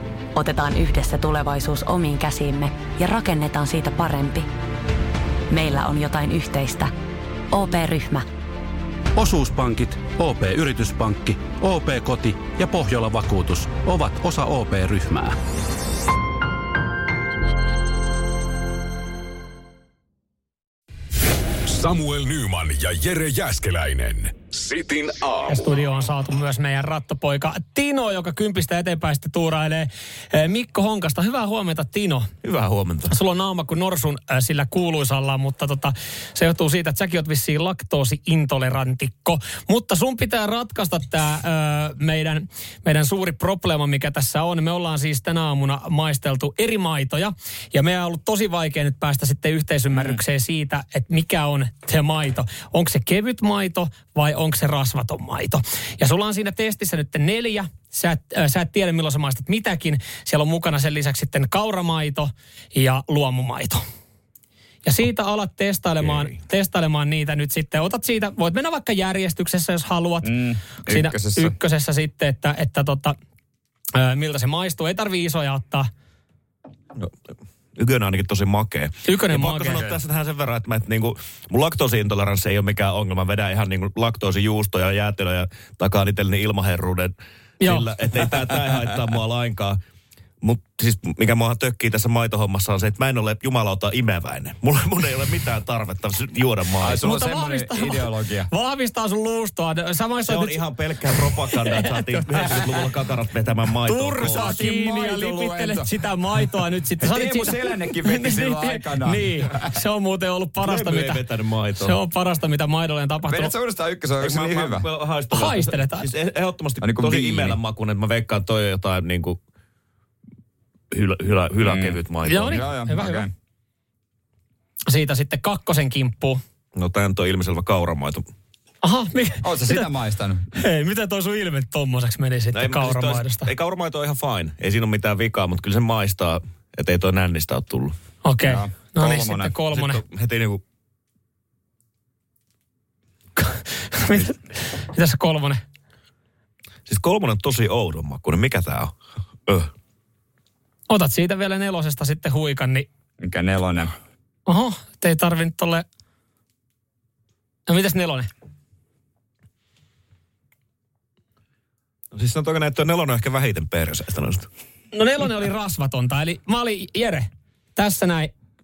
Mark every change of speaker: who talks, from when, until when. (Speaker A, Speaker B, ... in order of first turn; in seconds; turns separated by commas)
Speaker A: 0.3-4.5, Speaker A: 5.5-6.9, Speaker A: 7.5-8.3, Speaker B: 9.2-15.3, Speaker C: 21.7-25.6, Speaker D: 25.5-32.3, Speaker E: 32.4-33.1, Speaker D: 33.1-63.8, Speaker D: 64.8-73.2, Speaker F: 70.2-71.5, Speaker D: 74.0-75.9, Speaker E: 77.8-89.8, Speaker D: 79.0-79.8, Speaker D: 87.6-87.9, Speaker E: 90.4-97.1, Speaker F: 96.8-98.5, Speaker D: 97.0-102.7, Speaker E: 100.3-104.6, Speaker D: 103.9-111.2, Speaker F: 104.3-105.9, Speaker F: 107.0-109.7, Speaker E: 110.6-112.0, Speaker D: 111.8-113.5, Speaker F: 113.2-114.9, Speaker E: 114.2-119.4, Speaker D: 115.3-116.1, Speaker F: 116.8-117.6, Speaker E: 120.9-122.6, Speaker F: 121.6-123.3, Speaker D: 122.2-123.3, Speaker D: 124.9-126.4, Speaker E: 126.8-128.2, Speaker D: 128.8-129.9, Speaker F: 129.4-130.5, Speaker D: 130.5-133.5, Speaker E: 132.5-137.9, Speaker D: 138.2-140.0, Speaker F: 138.4-139.6, Speaker E: 139.7-140.6, Speaker D: 143.4-145.6, Speaker E: 146.9-148.9, Speaker D: 150.9-152.9, Speaker F: 153.2-153.9, Speaker D: 154.5-155.8, Speaker D: 157.7-158.3, Speaker E: 162.1-164.5, Speaker D: 164.9-168.3